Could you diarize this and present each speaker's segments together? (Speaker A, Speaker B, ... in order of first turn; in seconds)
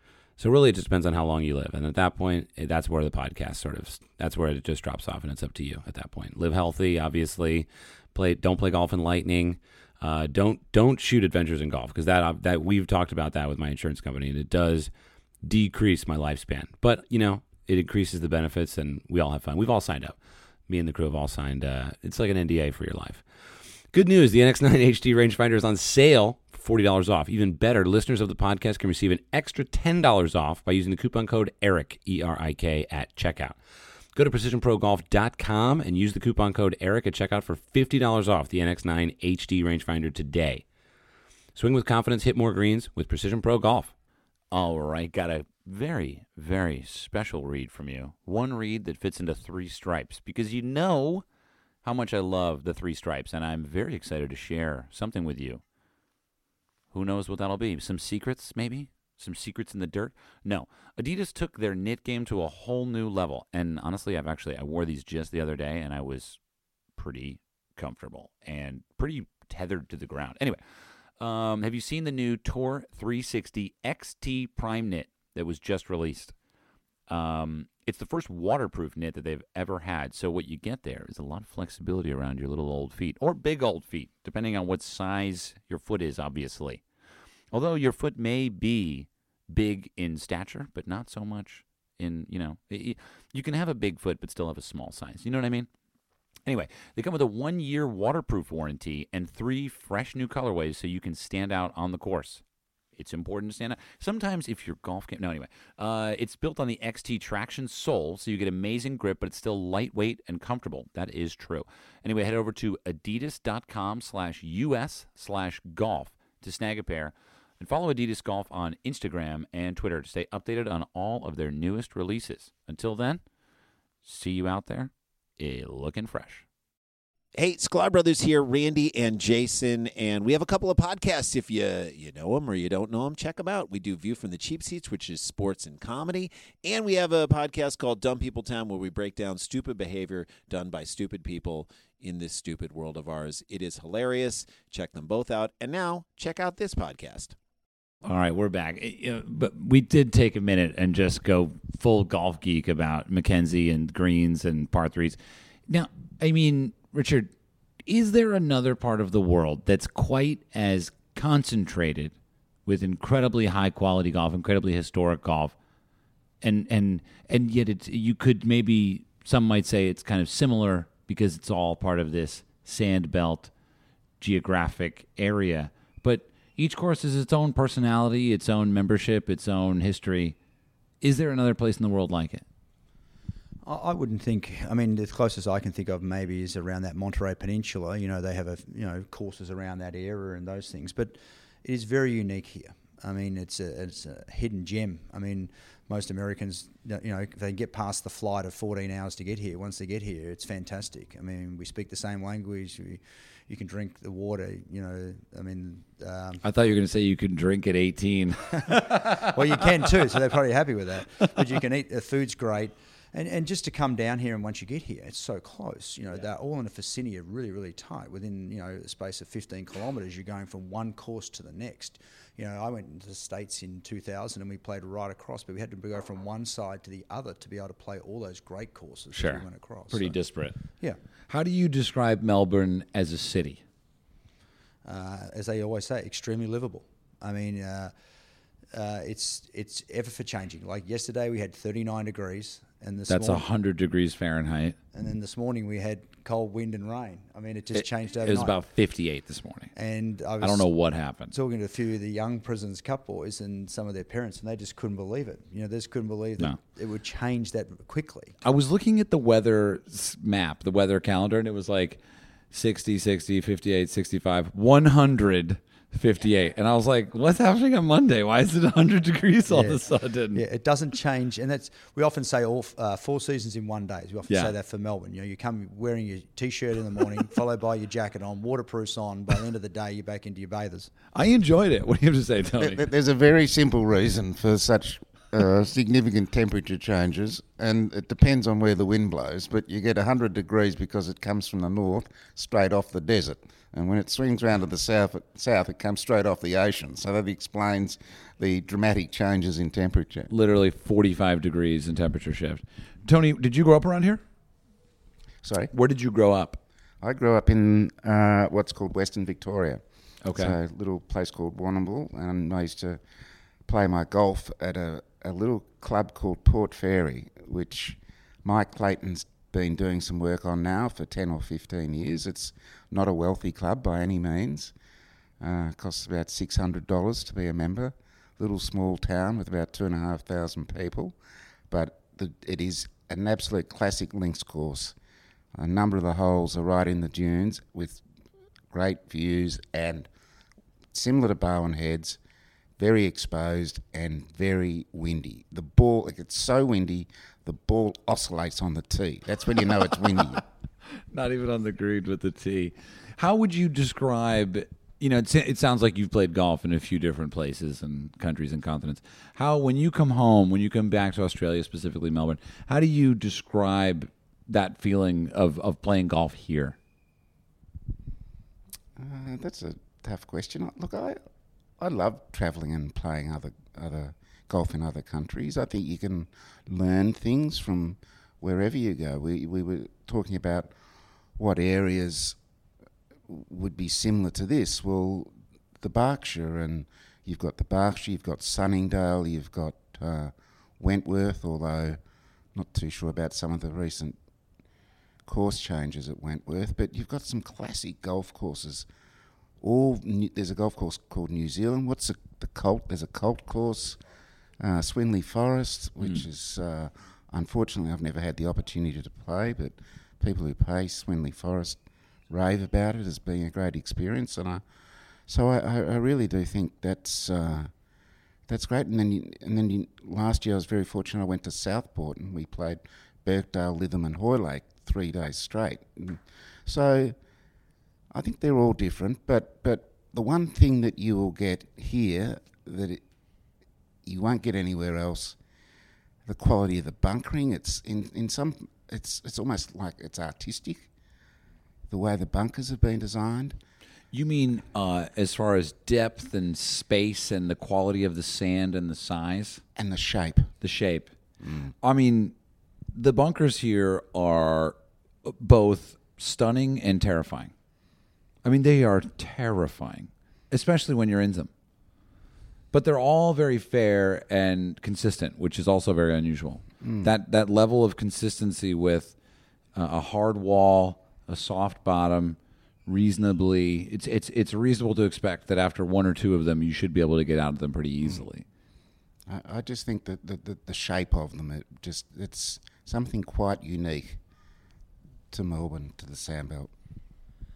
Speaker A: 0.4-14.9, 15.4-33.6, 34.1-40.6, 41.5-43.9
Speaker B: 44.5-51.2, 51.8-55.6, 56.9-66.4, 67.0-70.6, 71.2-76.3, 77.1-86.8, 87.5-95.7, 96.5-102.4, 103.0-123.2, 124.0-126.5, 148.0-157.3, 157.9-162.1, 162.7-165.6, 166.4-173.5, 174.2-180.4, 181.0-182.4, 206.4-209.6, 229.1-230.6, 231.3-233.6, 243.1-244.8, 247.7-249.7, 250.4-251.3, 258.4-262.0, 262.5-270.4, 281.1-282.9, 300.3-304.2, 305.7-306.6, 310.2-310.6, 351.1-366.8, 444.1-449.6, 450.6-451.1, 451.8-452.4, 452.9-457.5, 458.4-461.5, 462.7-469.1, 469.7-478.4
Speaker C: 127.4-147.4
Speaker D: 183.6-206.4, 208.7-230.2, 234.8-237.9, 238.7-243.4, 244.9-248.6, 249.7-250.7, 251.3-258.4, 269.5-280.9
Speaker E: 282.6-300.3, 305.4-305.7, 307.0-313.0, 313.6-324.7, 325.4-331.2, 331.7-334.9, 335.6-338.0, 338.7-340.1, 340.9-342.2, 342.8-350.4, 369.0-371.2, 371.8-380.7, 381.4-382.4, 383.3-392.0, 392.5-394.2, 395.3-398.9, 399.6-404.0, 404.6-414.6, 415.3-417.7, 418.5-427.1, 428.1-433.0, 434.1-435.4, 436.3-440.9, 441.9-443.6, 449.8-450.5, 451.4-451.7, 466.8-467.1, 479.3-484.2, 485.3-486.7